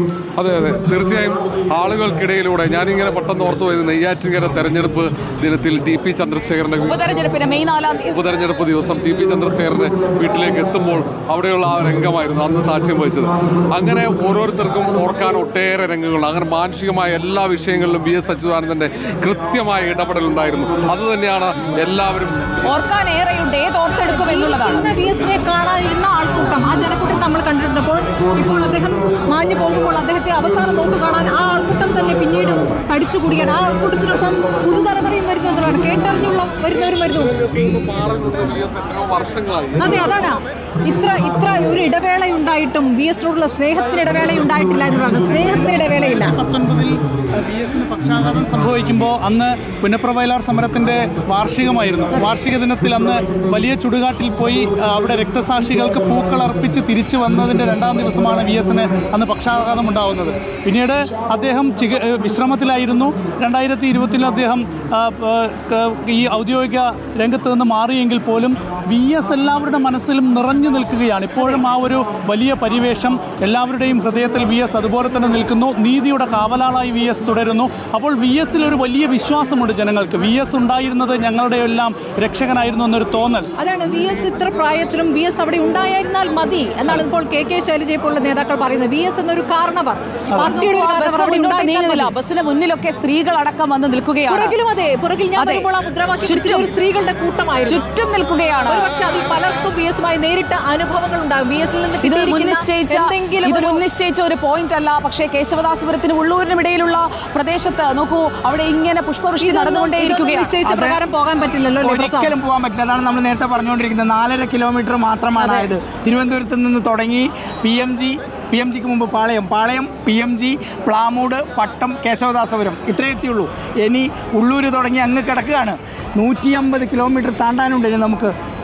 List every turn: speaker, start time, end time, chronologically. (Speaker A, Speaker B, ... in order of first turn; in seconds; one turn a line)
Speaker A: 0.4-7.0
Speaker B: 6.8-8.3
Speaker A: 8.1-22.4
Speaker B: 22.6-24.9
Speaker C: 24.0-37.3
Speaker A: 37.3-40.2
Speaker C: 39.8-46.4
Speaker D: 45.5-83.5
Speaker C: 83.6-92.1
Speaker D: 90.3-90.6
Speaker B: 90.6-94.6
Speaker C: 94.3-97.8
Speaker B: 95.3-95.7
Speaker B: 96.2-96.7
Speaker B: 97.6-98.9
Speaker C: 98.7-103.8
Speaker B: 102.0-110.7
Speaker C: 109.4-112.3
Speaker E: 110.7-111.0
Speaker E: 111.8-128.3